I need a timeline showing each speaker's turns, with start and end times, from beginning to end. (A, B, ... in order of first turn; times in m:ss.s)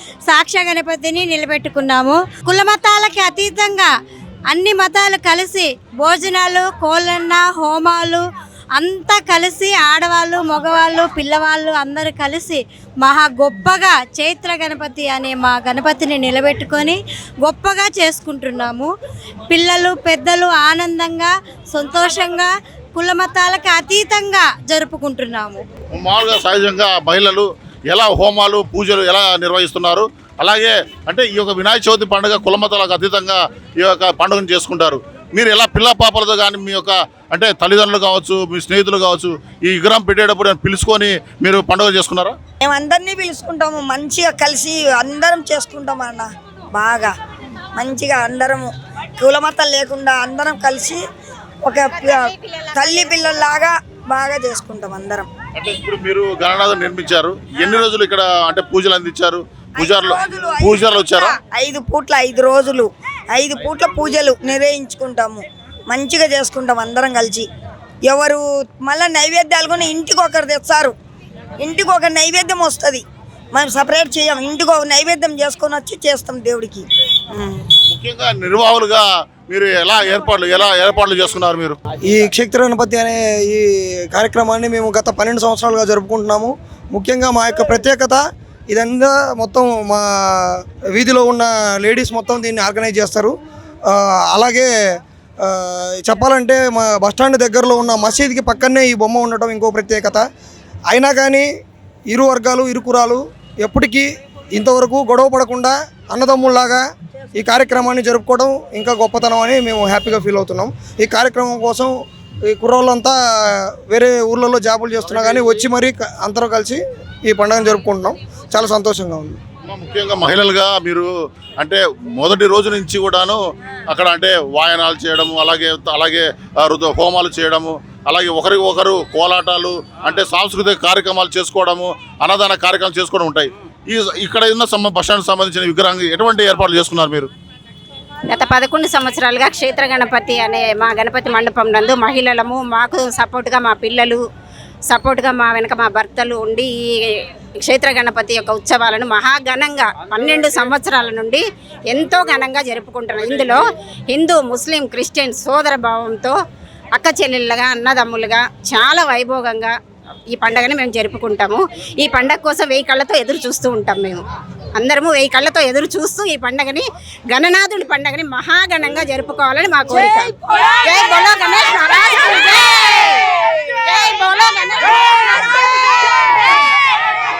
0:00.3-0:03.9 A
0:04.5-0:18.9 A
0:19.5-0:25.6 A
0:25.9-0:42.4 B
0:42.6-0:47.1 C
0:47.8-0:51.0 C
0:51.6-0:55.3 C
0:55.6-1:01.4 B
0:59.8-1:07.5 C
1:08.1-1:10.9 C
1:11.6-1:13.0 C
1:13.5-1:17.7 C
1:17.9-1:21.8 B
1:22.1-1:33.3 D
1:33.9-1:34.7 D
1:35.4-1:40.2 D
1:40.9-1:41.5 D
1:42.1-1:46.8 D
1:47.3-1:51.9 D
1:52.5-1:59.4 D
1:59.6-2:17.3 B
2:18.3-2:24.2 E
2:24.9-2:36.4 E
2:37.0-2:39.7 E
2:40.3-2:44.2 E
2:44.8-2:56.6 E